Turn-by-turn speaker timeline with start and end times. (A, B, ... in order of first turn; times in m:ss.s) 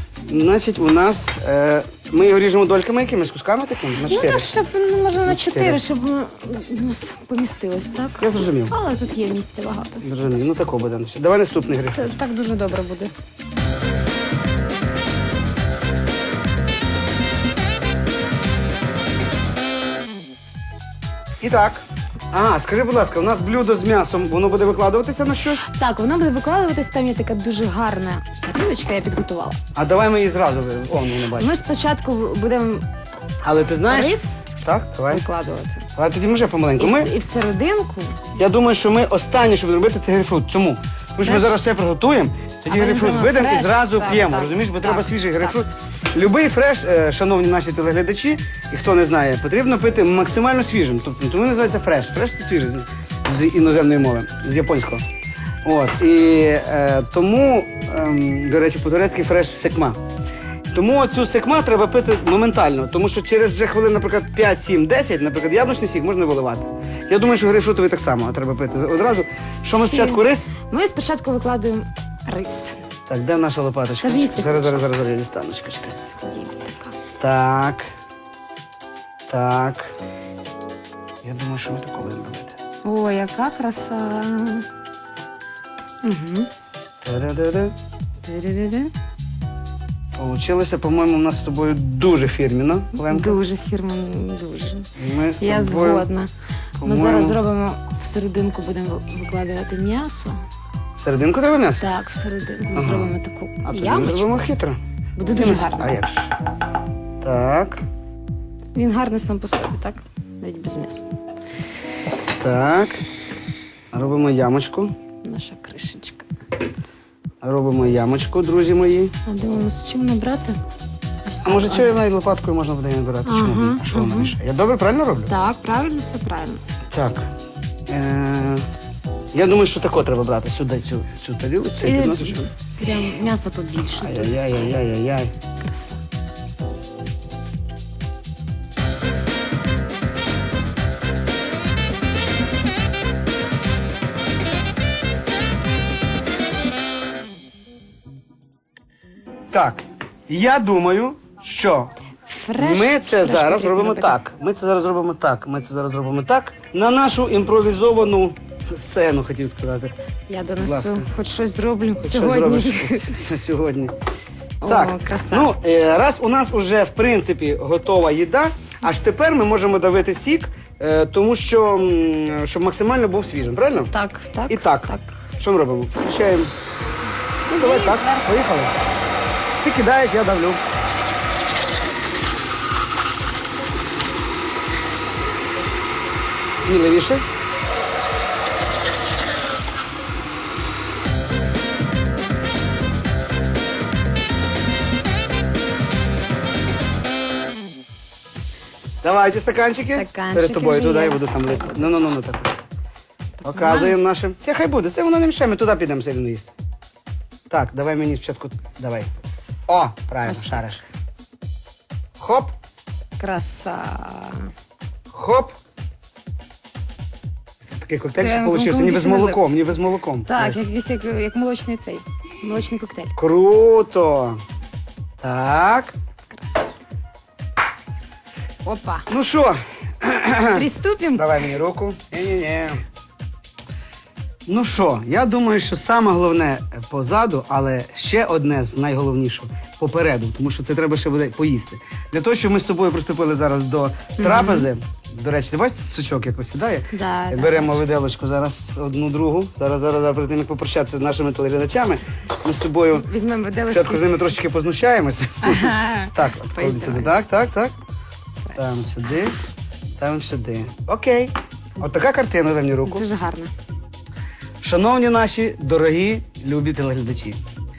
0:00.3-0:04.5 A
0:04.0-0:10.0 B
0:05.2-0:05.8 A
0:08.2-0:08.7 A
0:10.0-0:12.1 A
0:11.9-0:13.1 B
0:21.4-0:25.6 A
0:25.6-0:29.6 B
0:29.7-0:31.5 A
0:31.3-0:32.8 B
0:33.4-0:35.2 A
0:33.9-0:34.5 B
0:35.1-0:35.9 B
0:36.0-0:37.1 A
0:36.8-0:38.3 B
0:38.4-0:55.0 A
0:41.2-0:41.5 B
0:42.7-0:45.6 B
0:55.6-1:00.0 A
1:00.7-1:10.5 A
1:09.8-1:12.8 B
1:13.1-1:16.0 A
1:14.0-1:14.8 B
1:16.2-1:17.0 B
1:17.2-1:17.9 A
1:19.3-1:19.9 A
1:21.2-1:22.6 A
1:22.8-1:24.7 B
1:26.0-1:26.5 B
1:27.0-1:27.7 A
1:28.2-1:28.9 B
1:30.1-1:33.4 A
1:33.0-1:40.4 B
1:35.0-1:36.1 A
1:36.8-1:37.4 A
1:41.0-1:41.8 A
1:41.8-1:44.5 B
1:42.7-1:43.1 A
1:43.6-1:44.8 A
1:45.2-1:46.0 B
1:45.3-1:46.3 A
1:47.2-1:47.8 A
1:48.7-1:51.1 B
1:52.3-1:53.0 A
1:53.9-1:54.9 A
1:55.2-1:56.3 B
1:57.4-1:59.1 A
1:59.2-2:00.6 B
2:01.2-2:01.9 B
2:01.4-2:05.3 A
2:03.2-2:04.3 B
2:05.3-2:06.6 B
2:06.9-2:07.3 A
2:07.9-2:08.6 A
2:09.3-2:12.4 A
2:11.8-2:14.8 B
2:14.0-2:15.3 A
2:15.6-2:16.0 B
2:29.5-2:31.9 A
2:32.2-2:34.2 B
2:32.6-2:39.9 A
2:40.3-2:43.2 B
2:40.6-2:41.1 A
2:42.0-2:43.9 A
2:44.6-2:45.5 B
2:44.6-2:53.9 A
2:53.9-2:55.2 B
2:54.5-2:56.5 A
2:57.4-2:58.3 B
2:57.5-2:58.7 A
2:59.6-3:00.6 A
3:06.5-3:07.2 A
3:19.0-3:22.6 A
3:19.8-3:22.1 B
3:23.4-3:24.0 B
3:23.4-3:26.5 A
3:27.5-3:29.1 A
3:29.7-3:30.8 A
3:30.2-3:30.8 B
3:32.2-3:32.5 A
3:33.2-3:34.5 B
3:35.1-3:35.6 A
3:37.6-3:40.6 A
3:38.2-3:39.6 B
3:40.2-3:43.2 B
3:43.2-3:44.4 A
3:45.2-3:45.9 A
3:46.3-3:46.7 B
3:48.6-3:49.1 B
3:49.1-3:52.8 A
3:50.5-3:51.4 B
3:54.4-4:13.1 A
4:04.2-4:04.7 B
4:06.9-4:07.8 B
4:13.0-4:14.3 B
4:13.7-4:17.7 A
4:15.4-4:17.2 B
4:18.4-4:18.7 B
4:18.5-4:19.4 A
4:20.0-4:23.0 A
4:22.8-4:23.5 B
4:24.6-4:27.4 A